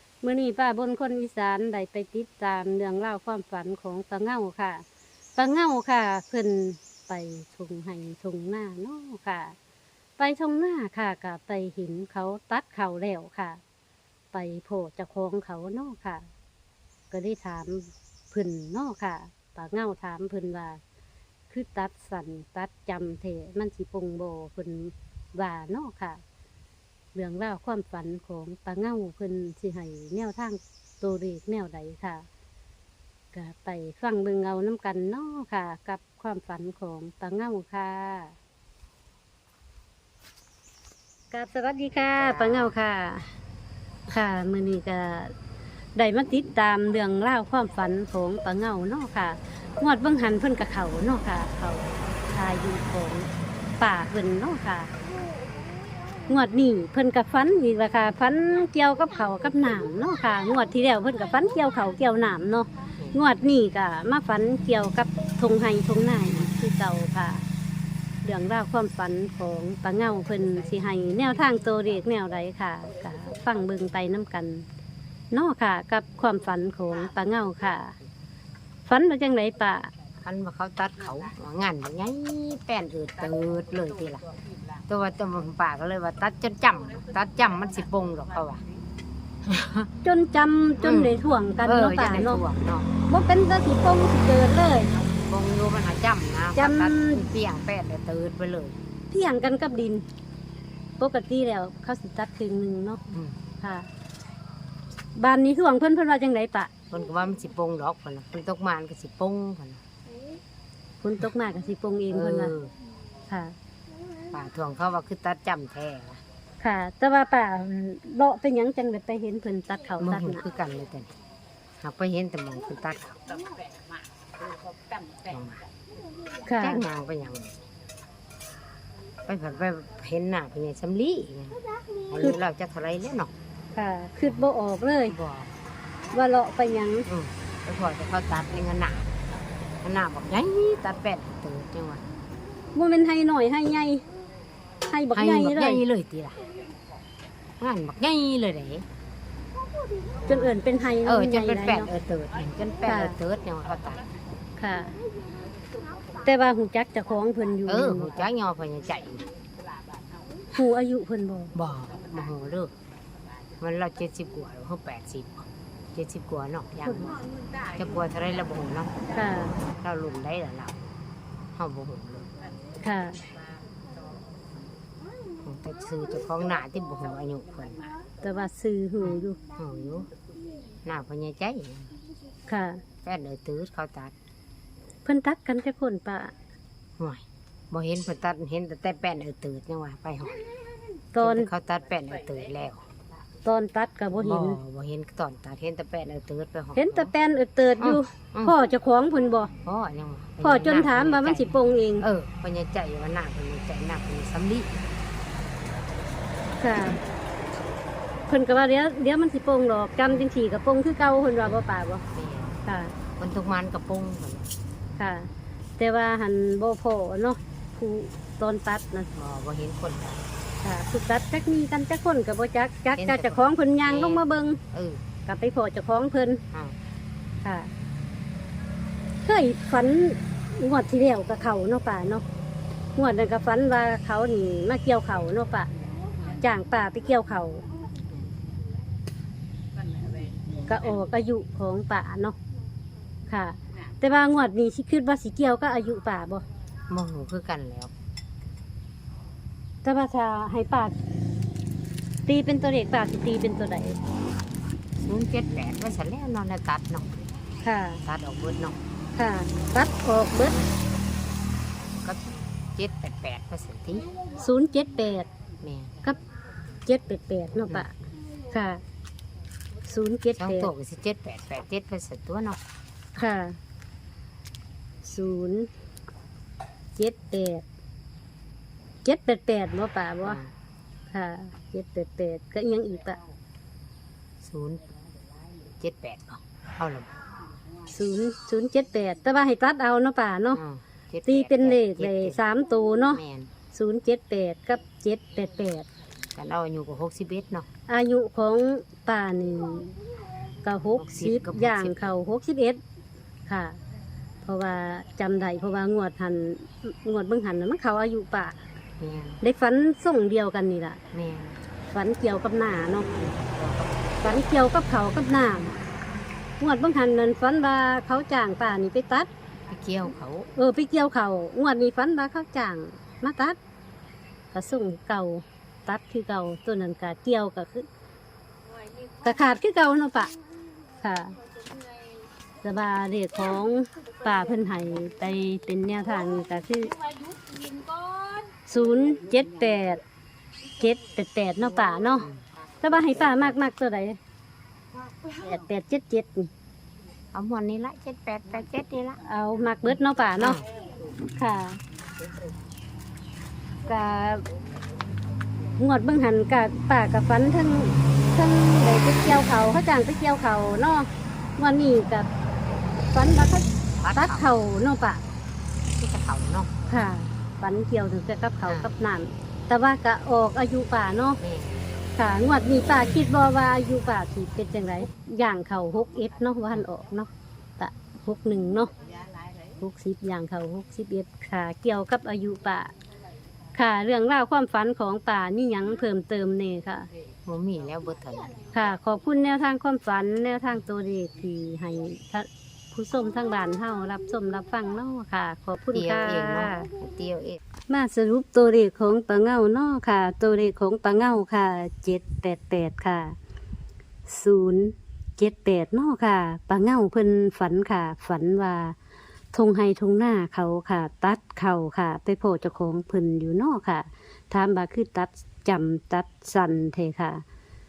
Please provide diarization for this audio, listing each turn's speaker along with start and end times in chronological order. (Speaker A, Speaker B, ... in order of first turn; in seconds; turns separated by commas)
Speaker A: 0.2-4.8, Speaker A: 5.4-9.6, Speaker A: 10.2-13.6, Speaker A: 14.3-16.3, Speaker A: 17.1-20.8, Speaker A: 21.5-26.2, Speaker A: 27.1-32.3, Speaker A: 33.3-38.4, Speaker A: 41.3-43.3, Speaker B: 42.2-42.8, Speaker A: 44.1-45.3, Speaker A: 46.0-53.3, Speaker A: 53.8-54.9, Speaker A: 56.3-67.5, Speaker A: 68.2-74.7, Speaker A: 75.3-78.0, Speaker A: 78.9-79.9, Speaker B: 80.2-84.3, Speaker B: 84.9-88.6, Speaker B: 89.5-89.9, Speaker A: 90.0-92.4, Speaker B: 90.8-92.9, Speaker A: 93.1-94.9, Speaker B: 95.0-98.8, Speaker A: 96.6-97.3, Speaker A: 99.1-100.0, Speaker A: 101.0-103.0, Speaker B: 103.1-103.4, Speaker A: 103.6-103.9, Speaker A: 105.2-106.7, Speaker B: 106.9-109.8, Speaker A: 111.0-112.5, Speaker B: 112.1-112.7, Speaker A: 113.3-113.5, Speaker B: 114.3-116.2, Speaker A: 116.6-120.4, Speaker B: 120.0-121.1, Speaker B: 121.8-123.2, Speaker B: 125.2-125.6, Speaker A: 126.5-126.8, Speaker B: 126.6-127.6, Speaker B: 129.3-133.3, Speaker A: 133.8-135.2, Speaker B: 135.1-135.5, Speaker A: 136.1-137.1, Speaker B: 137.1-139.2, Speaker B: 139.8-142.0, Speaker A: 142.7-144.0, Speaker A: 144.8-145.8, Speaker B: 145.2-146.4, Speaker B: 147.6-148.9, Speaker B: 150.3-154.1, Speaker A: 150.3-151.9, Speaker A: 152.9-153.2, Speaker A: 154.6-155.0, Speaker A: 156.2-158.3, Speaker B: 157.7-159.3, Speaker A: 160.5-161.5, Speaker B: 161.6-162.7, Speaker B: 163.6-168.9, Speaker A: 169.1-169.6, Speaker B: 169.8-170.8, Speaker B: 171.6-172.3, Speaker A: 172.8-173.2, Speaker B: 175.4-177.9, Speaker A: 178.2-179.4, Speaker B: 179.0-180.1, Speaker B: 180.8-181.9, Speaker A: 182.5-182.8, Speaker B: 183.0-184.1, Speaker A: 185.1-186.3, Speaker B: 187.0-190.4, Speaker A: 191.1-191.5, Speaker B: 191.2-192.8, Speaker A: 193.4-194.6, Speaker B: 194.1-197.1, Speaker A: 196.8-199.5, Speaker B: 197.8-198.6, Speaker B: 199.6-204.8, Speaker A: 200.4-202.1, Speaker A: 206.6-207.0, Speaker A: 208.3-212.0, Speaker B: 212.1-212.6, Speaker A: 212.7-212.9, Speaker B: 213.2-214.5, Speaker A: 215.0-219.1, Speaker B: 219.2-220.3, Speaker A: 220.6-224.6, Speaker B: 223.0-225.0, Speaker A: 225.3-226.4, Speaker B: 226.5-226.8, Speaker A: 227.4-227.7, Speaker A: 229.2-232.2, Speaker A: 233.0-235.7, Speaker A: 236.3-237.6, Speaker A: 240.7-242.4, Speaker A: 243.3-246.4, Speaker B: 246.9-247.9, Speaker A: 249.8-250.9, Speaker A: 252.3-254.0, Speaker B: 255.0-257.1, Speaker A: 257.6-258.0, Speaker B: 258.0-258.8, Speaker A: 259.1-260.6, Speaker B: 261.8-264.1, Speaker A: 264.3-265.3, Speaker B: 265.6-266.0, Speaker A: 266.9-267.9, Speaker A: 268.5-268.8, Speaker A: 269.9-270.7, Speaker B: 270.4-272.6, Speaker A: 273.1-273.6, Speaker A: 275.0-275.7, Speaker A: 277.0-277.6, Speaker A: 279.0-280.4, Speaker B: 280.2-280.5, Speaker A: 281.1-283.2, Speaker B: 284.4-284.9, Speaker B: 285.8-287.1, Speaker A: 287.9-290.6, Speaker B: 290.5-292.4, Speaker A: 291.3-295.9, Speaker B: 293.1-293.5, Speaker B: 296.4-297.7, Speaker A: 297.9-299.9, Speaker A: 300.6-302.8, Speaker B: 301.0-302.2, Speaker A: 303.5-303.8, Speaker A: 304.4-308.6, Speaker B: 309.0-309.4, Speaker A: 309.4-311.0, Speaker B: 311.1-311.6, Speaker A: 311.9-313.1, Speaker B: 313.1-314.4, Speaker A: 314.2-315.8, Speaker A: 316.6-319.3, Speaker B: 319.7-320.5, Speaker A: 320.6-323.6, Speaker A: 324.5-327.9, Speaker A: 329.2-330.3, Speaker A: 331.0-331.4, Speaker A: 332.6-337.0, Speaker A: 338.7-340.0, Speaker A: 340.8-342.3, Speaker B: 342.2-343.6, Speaker A: 342.8-344.2, Speaker A: 345.3-346.5, Speaker B: 347.3-349.2, Speaker A: 349.2-350.6, Speaker B: 350.4-350.6, Speaker A: 351.3-351.8, Speaker A: 353.9-354.4, Speaker A: 355.8-362.3, Speaker A: 363.1-365.3, Speaker B: 364.0-364.5, Speaker B: 365.9-366.7, Speaker A: 366.9-371.4, Speaker B: 368.6-368.9, Speaker B: 371.4-371.9, Speaker A: 372.1-378.9, Speaker A: 379.8-382.9, Speaker A: 383.7-387.1, Speaker B: 387.5-388.7, Speaker A: 388.7-396.9, Speaker B: 395.9-397.6, Speaker A: 397.9-403.4, Speaker A: 404.3-409.0, Speaker A: 409.5-417.4